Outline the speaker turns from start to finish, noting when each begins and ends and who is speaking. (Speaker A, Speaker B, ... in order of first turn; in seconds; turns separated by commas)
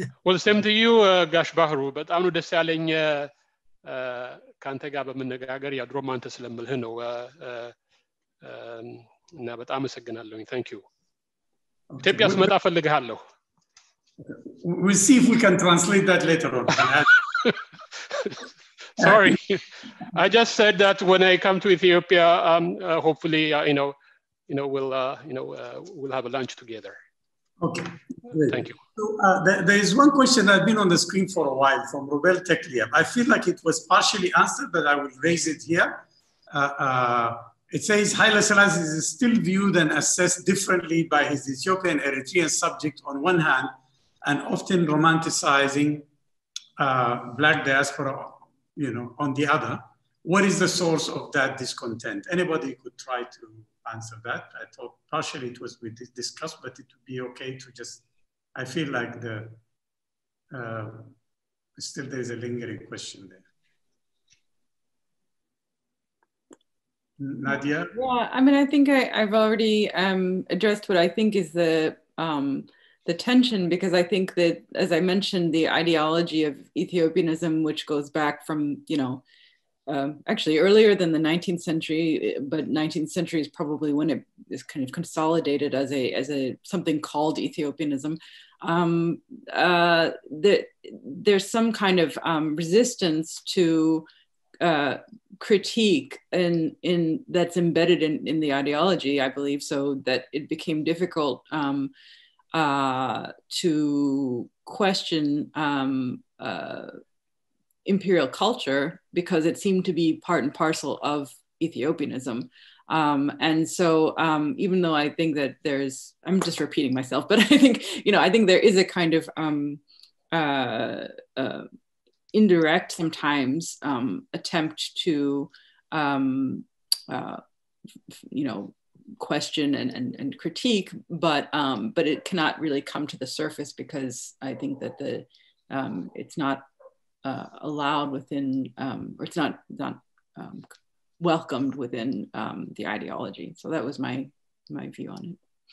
Speaker A: 0.2-3.3, Speaker A: 3.8-7.7, Speaker A: 8.4-10.8, Speaker B: 11.9-12.5, Speaker A: 12.0-13.2, Speaker B: 14.2-17.1, Speaker A: 19.0-23.9, Speaker B: 19.0-19.3, Speaker A: 24.5-27.0, Speaker B: 27.6-46.0, Speaker A: 28.5-28.8, Speaker B: 46.8-58.0, Speaker B: 58.5-59.6, Speaker B: 60.5-61.1, Speaker B: 61.8-63.4, Speaker B: 67.2-67.9, Speaker C: 67.9-79.2, Speaker C: 79.9-94.0, Speaker C: 94.6-101.9, Speaker C: 102.5-106.9, Speaker C: 107.8-119.8, Speaker C: 120.3-121.7, Speaker C: 122.3-127.4, Speaker C: 128.3-136.6, Speaker C: 137.2-140.7, Speaker C: 141.2-145.4